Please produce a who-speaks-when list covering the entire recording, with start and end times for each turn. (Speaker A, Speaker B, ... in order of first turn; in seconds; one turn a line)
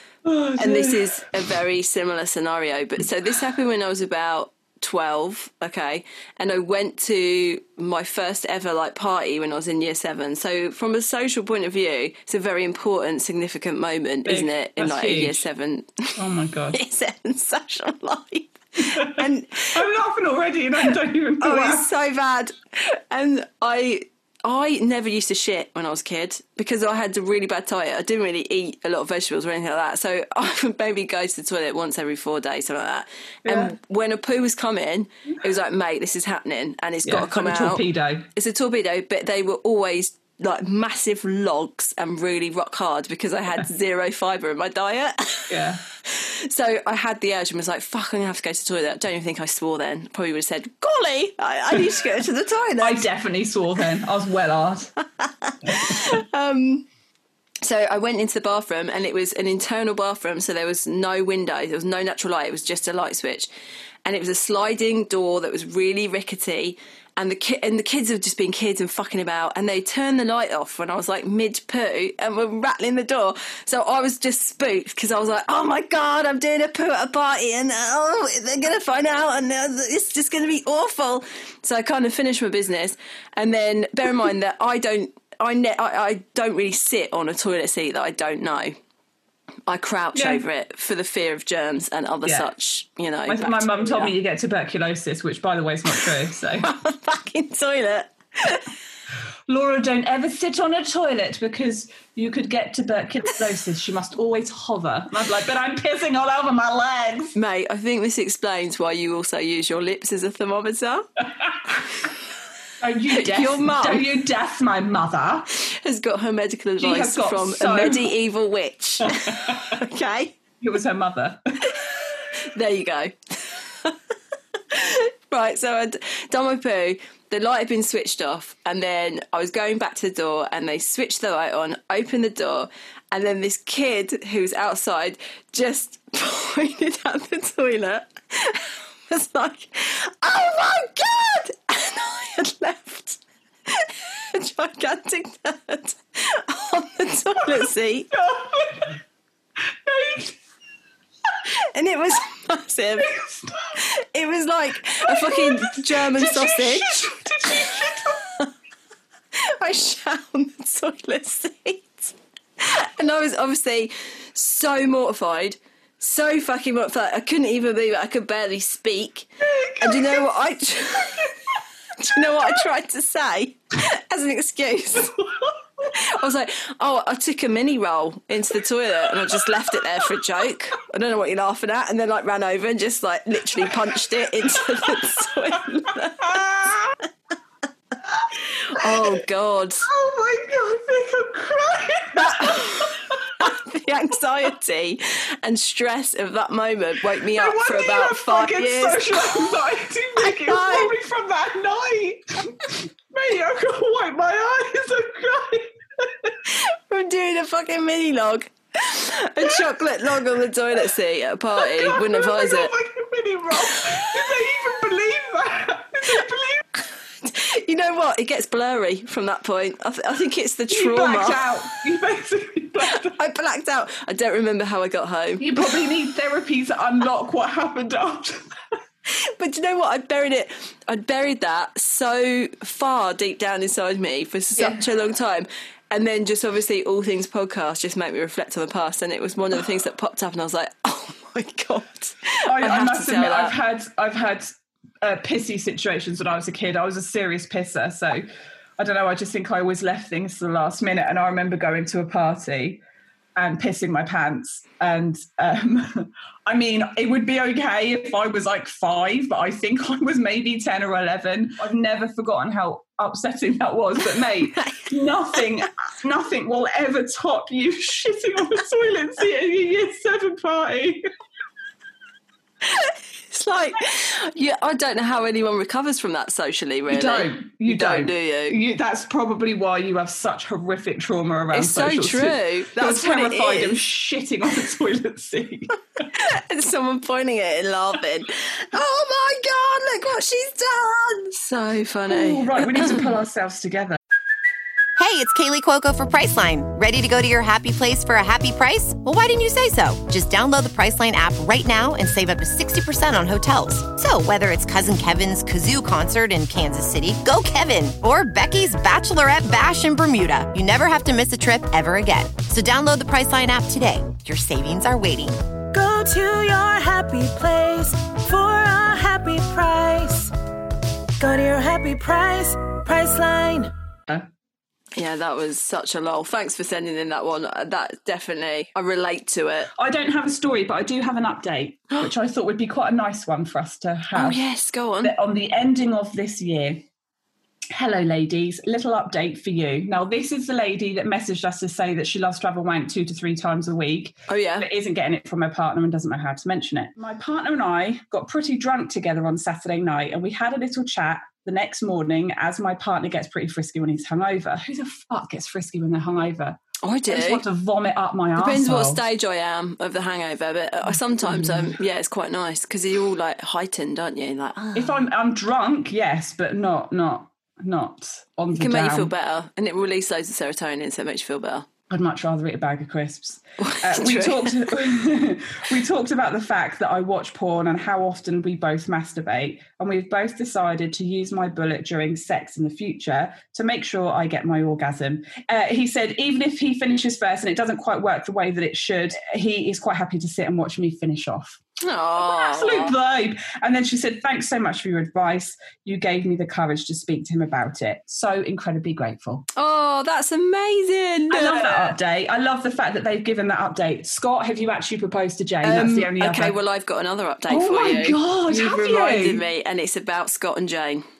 Speaker A: 0.2-1.2
Speaker B: 0.6-19.8
Speaker A: 14.2-15.4
Speaker A: 16.2-16.8
Speaker A: 18.8-21.9
Speaker B: 21.4-37.8
Speaker A: 33.5-33.7
Speaker A: 37.0-38.3
Speaker B: 38.3-53.0
Speaker A: 45.5-45.8
Speaker A: 52.8-54.9
Speaker B: 55.2-56.9
Speaker A: 55.6-56.0
Speaker B: 57.6-63.5
Speaker B: 64.0-88.8
Speaker B: 89.7-94.1
Speaker A: 90.1-90.4
Speaker A: 92.2-92.5
Speaker A: 93.3-96.7
Speaker B: 96.6-98.7
Speaker A: 99.5-107.3
Speaker B: 107.3-111.1
Speaker A: 112.8-115.5
Speaker B: 113.1-114.1
Speaker B: 115.5-120.3
Speaker A: 116.8-118.1
Speaker A: 119.0-119.8
Speaker A: 120.6-121.8
Speaker B: 121.7-124.0
Speaker B: 124.6-148.1
Speaker A: 147.4-149.0
Speaker A: 149.8-150.3
Speaker B: 151.4-153.1
Speaker A: 153.0-153.8
Speaker B: 153.8-158.5
Speaker A: 155.0-158.2
Speaker B: 159.3-171.3
Speaker A: 169.4-170.3
Speaker B: 171.9-175.2
Speaker A: 172.1-172.5
Speaker A: 174.9-175.9
Speaker B: 175.9-186.7
Speaker A: 179.1-179.7
Speaker A: 183.7-185.1
Speaker A: 186.2-186.9
Speaker B: 188.7-189.9
Speaker A: 188.8-189.2
Speaker A: 189.8-193.5
Speaker B: 192.1-199.5
Speaker A: 197.3-206.4
Speaker B: 200.2-200.9
Speaker B: 206.5-212.7
Speaker A: 211.6-216.7
Speaker B: 213.6-214.1
Speaker B: 217.1-221.5
Speaker A: 220.7-223.2
Speaker B: 222.8-225.5
Speaker A: 225.4-228.5
Speaker B: 229.1-243.5
Speaker A: 234.5-234.8
Speaker A: 242.4-244.5
Speaker A: 245.0-248.2
Speaker A: 248.8-252.8
Speaker A: 253.3-271.1
Speaker B: 272.6-278.6
Speaker A: 276.9-285.7
Speaker B: 281.5-283.8
Speaker B: 286.0-293.0
Speaker A: 292.1-294.0
Speaker C: 295.0-315.4
Speaker D: 315.7-320.3
Speaker D: 321.2-323.7
Speaker B: 324.9-329.7
Speaker A: 329.8-334.4
Speaker B: 334.1-335.1
Speaker A: 335.0-336.8
Speaker A: 337.7-359.0
Speaker B: 344.3-344.7
Speaker B: 356.8-357.4
Speaker B: 358.4-365.0
Speaker A: 360.9-361.8
Speaker A: 364.7-369.1
Speaker B: 368.5-371.7
Speaker A: 371.9-391.6
Speaker B: 373.6-374.9
Speaker B: 391.8-392.9
Speaker A: 392.2-399.4
Speaker B: 399.5-401.9
Speaker A: 401.3-406.6
Speaker B: 405.6-411.0
Speaker A: 407.5-409.4